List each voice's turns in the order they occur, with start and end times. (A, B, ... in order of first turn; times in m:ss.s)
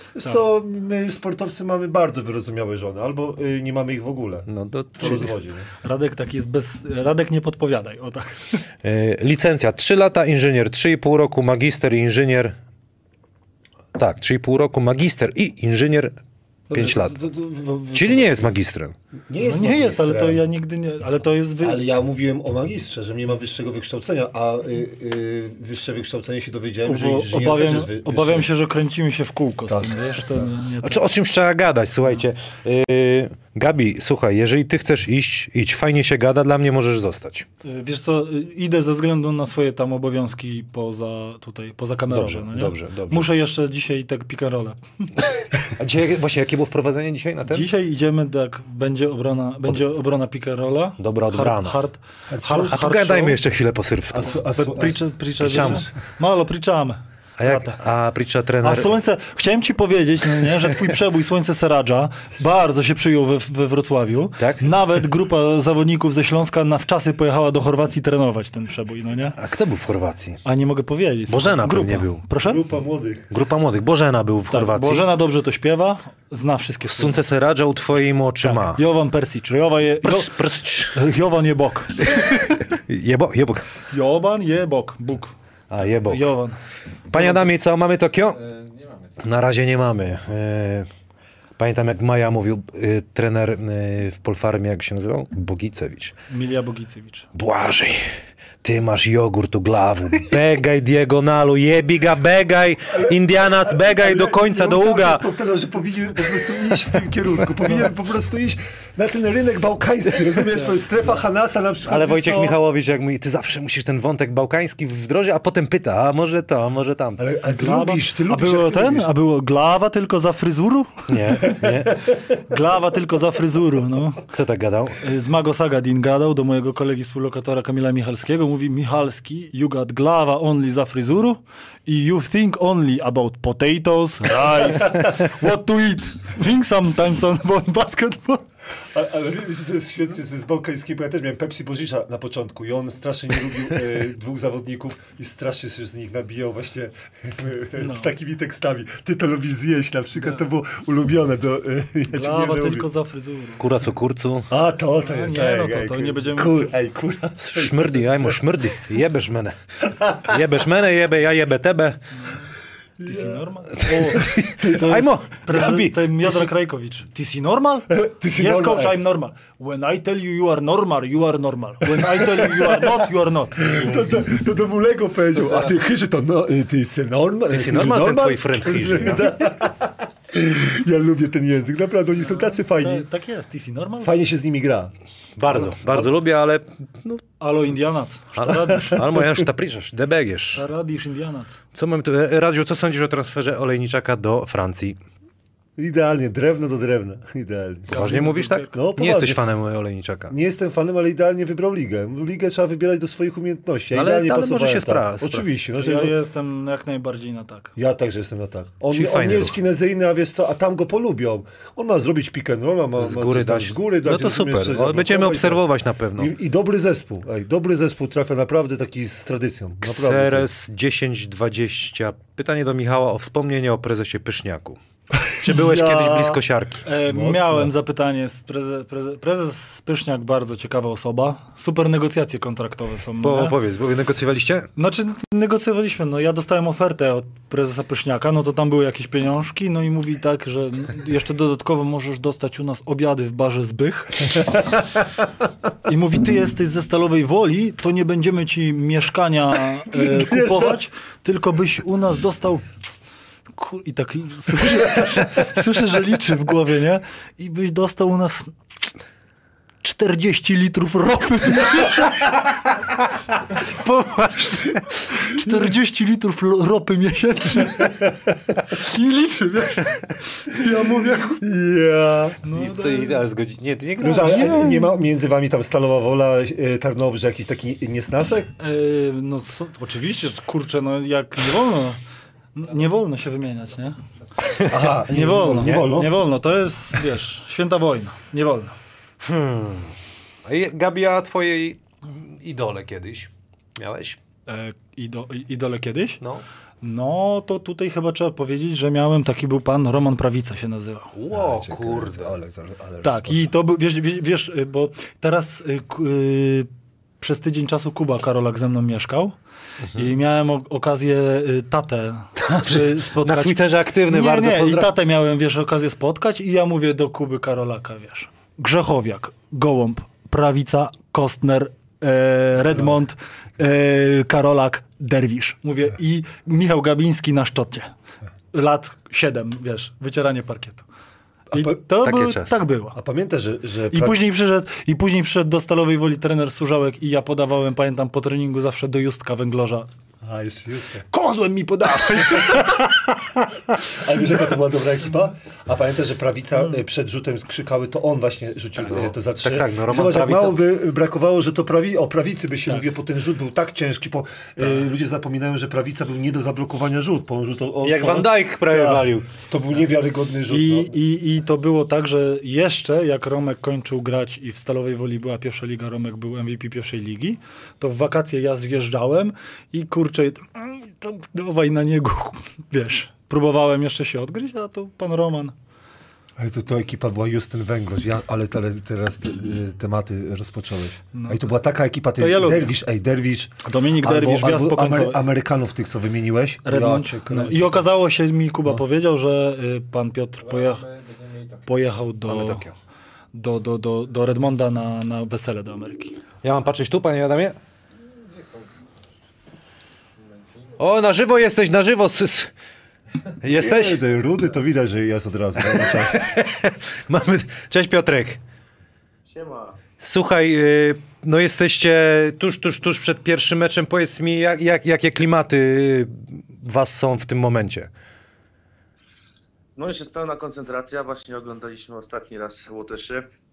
0:00.1-0:05.7 A
0:04.5-0:05.3 B
0:05.8-0:08.6 C
0:08.8-0:12.6 B
0:14.0-0:16.2 B
0:16.7-0:18.5 A
0:16.7-0:17.2 B
0:17.9-0:18.9 B
0:19.3-0:20.4 A
0:19.4-0:21.8 C
0:21.6-0:28.5 A
0:26.8-0:31.0 C
0:29.7-0:30.5 A
0:30.8-0:37.5 B
0:37.6-0:45.1 C
0:42.1-0:43.3 B
0:45.8-0:47.7 B
0:47.4-0:53.4 C
0:51.0-0:51.8 B
0:52.3-0:52.8 A
0:52.5-0:54.4 B
0:54.1-0:55.9 A
0:54.5-0:57.8 C
0:55.4-0:55.8 B
0:57.4-0:58.9 B
0:58.6-1:09.4 C
1:04.4-1:04.7 B
1:09.3-1:10.4 B
1:10.4-1:12.6 C
1:11.3-1:12.2 B
1:12.4-1:13.3 A
1:13.3-1:15.1 B
1:14.5-1:17.2 C
1:16.9-1:18.8 B
1:18.4-1:20.3 C
1:20.0-1:21.0 B
1:20.9-1:22.4 C
1:22.0-1:23.7 B
1:23.9-1:25.3 C
1:25.7-1:26.3 B
1:26.0-1:27.5 C
1:27.1-1:28.4 B
1:28.3-1:29.2 D
1:29.2-1:30.9 B
1:31.6-1:36.1 B
1:36.3-1:37.3 C
1:37.3-1:45.2 B
1:42.9-1:52.6 A
1:51.8-1:57.3 B
1:57.2-1:59.1 A
1:57.5-2:01.6 C
2:01.1-2:02.0 B
2:02.5-2:04.3 C
2:04.3-2:05.0 B
2:05.0-2:18.4 C
2:18.9-2:32.9 A
2:27.8-2:28.1 C
2:32.1-2:33.7 C
2:33.6-2:34.5 B
2:34.5-2:38.1 A
2:35.0-2:36.7 C
2:37.4-2:42.0 B
2:42.1-2:42.5 C
2:43.0-2:45.0 A
2:43.0-2:54.2 C
2:43.8-2:46.1 B
2:47.9-2:48.9 A
2:52.0-2:53.0 A
2:53.6-3:03.0 A
2:57.5-2:59.4 B
3:02.2-3:04.1 C
3:04.0-3:04.9 A
3:05.4-3:07.2 B
3:05.5-3:06.1 A
3:07.4-3:09.1 C
3:08.4-3:10.6 B
3:10.5-3:11.6 C
3:11.7-3:15.0 B
3:15.8-3:19.4 A
3:17.9-3:20.3 B
3:17.9-3:18.7 C
3:20.3-3:26.1 A
3:23.9-3:25.4 B
3:25.8-3:27.7 C
3:27.8-3:35.6 A
3:28.9-3:29.6 B
3:33.0-3:36.3 B
3:36.2-3:40.4 A
3:39.8-3:46.8 B
3:45.4-3:53.6 C
3:47.1-3:47.7 A
3:53.2-3:54.7 B
3:54.8-4:04.6 C
4:05.8-4:12.7 C
4:09.9-4:10.8 A
4:13.6-4:18.5 C
4:19.8-4:22.2 C
4:23.6-4:25.2 B
4:25.1-4:31.4 C
4:31.4-4:32.4 A
4:32.4-4:33.2 C
4:32.5-4:34.8 B
4:34.0-4:38.5 A
4:34.2-4:34.9 C
4:38.6-4:42.0 C
4:42.5-4:44.0 C
4:44.4-4:45.9 B
4:44.6-4:46.1 A
4:45.0-4:48.8 C
4:49.2-4:54.2 B
4:54.5-4:56.2 C
4:56.8-5:01.1 C
5:01.1-5:02.3 B
5:01.3-5:03.5 A
5:03.0-5:06.7 C
5:07.2-5:09.3 C
5:09.9-5:27.9 C
5:12.4-5:14.9 B
5:28.5-5:30.8 C
5:31.5-5:31.8 A
5:31.5-5:33.0 C
5:32.0-5:32.5 B
5:32.9-5:34.2 A
5:33.9-5:39.9 C
5:40.2-5:42.8 A
5:42.1-5:42.8 B
5:43.7-6:00.9 A
5:48.8-5:50.6 B
5:57.8-5:59.3 B
6:00.5-6:15.5 C
6:16.4-6:27.8 A
6:21.1-6:21.5 C
6:22.2-6:22.7 C
6:23.6-6:25.2 C
6:26.6-6:30.8 C
6:30.4-6:31.7 D
6:31.7-6:32.6 C
6:32.3-6:32.7 B
6:33.3-6:36.1 C
6:36.4-6:37.6 B
6:38.0-6:38.7 D
6:40.2-6:40.7 D
6:40.8-6:42.5 B
6:43.4-6:44.0 B
6:43.5-6:46.3 A
6:45.6-6:48.4 B
6:49.2-6:49.8 E
6:50.0-6:57.9 B
6:59.8-7:03.3 E